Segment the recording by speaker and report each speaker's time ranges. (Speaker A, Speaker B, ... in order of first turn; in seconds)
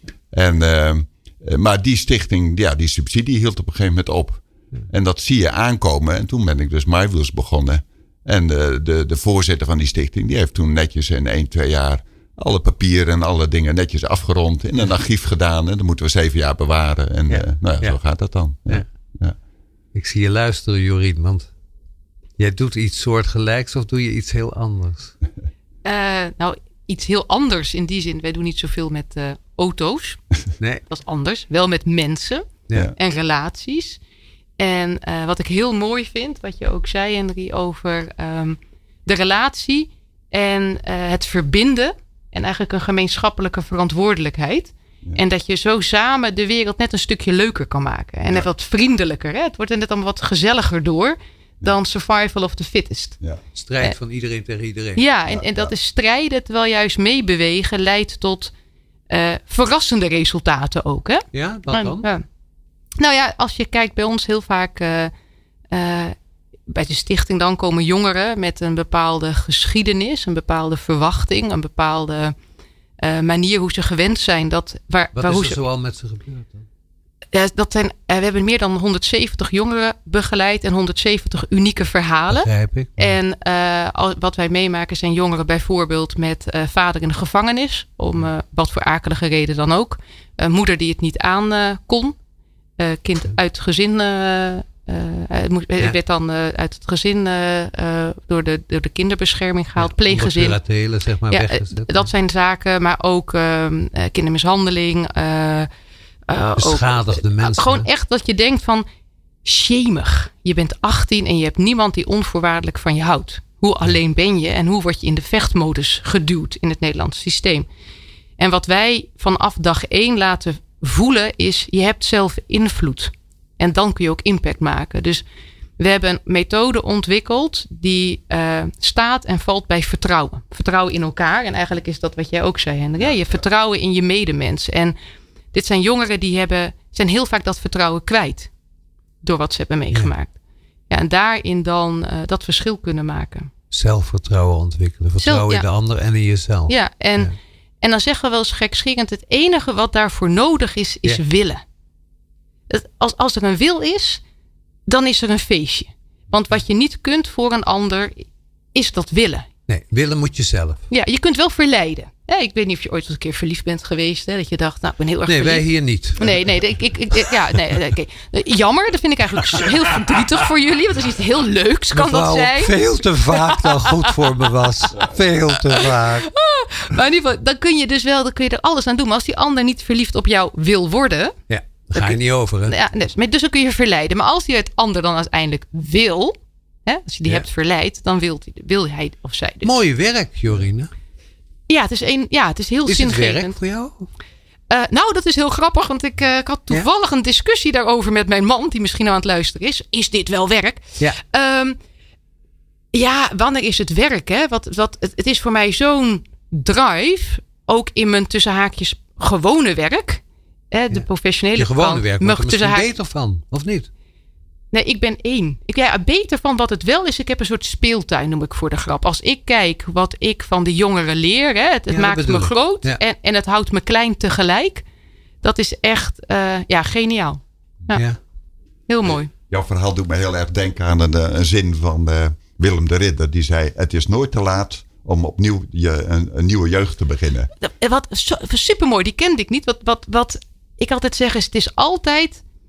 Speaker A: 0.3-19.4, 55.3-55.7, 229.1-237.5
Speaker B: 17.3-18.0, 19.9-21.5, 22.4-25.1, 53.5-55.0, 61.3-62.1, 75.2-76.6, 82.3-83.2, 99.8-102.1, 106.6-107.9, 143.7-147.3, 159.7-160.8, 165.3-166.5, 171.9-176.3, 181.5-182.8, 189.6-190.9, 192.9-194.1, 211.6-213.9, 221.9-223.0, 227.9-228.2
Speaker C: 25.8-30.2, 30.9-34.0, 34.6-53.2, 55.0-58.5, 59.1-62.2, 63.0-65.1, 65.7-66.2, 66.7-72.3, 73.0-75.6, 77.3-92.2, 92.8-100.6, 101.3-105.7, 106.3-108.9, 109.5-117.7, 118.4-125.2, 125.8-135.0, 135.5-138.5, 139.2-140.3, 140.9-143.5, 145.2-145.7, 146.7-151.6, 152.7-154.2, 154.9-159.5, 160.9-175.0, 175.7-181.4, 181.9-186.3, 186.9-189.8, 191.7-193.6, 194.7-201.8, 202.9-212.9, 214.7-224.8, 225.4-228.1, 228.9-229.3, 237.6-242.4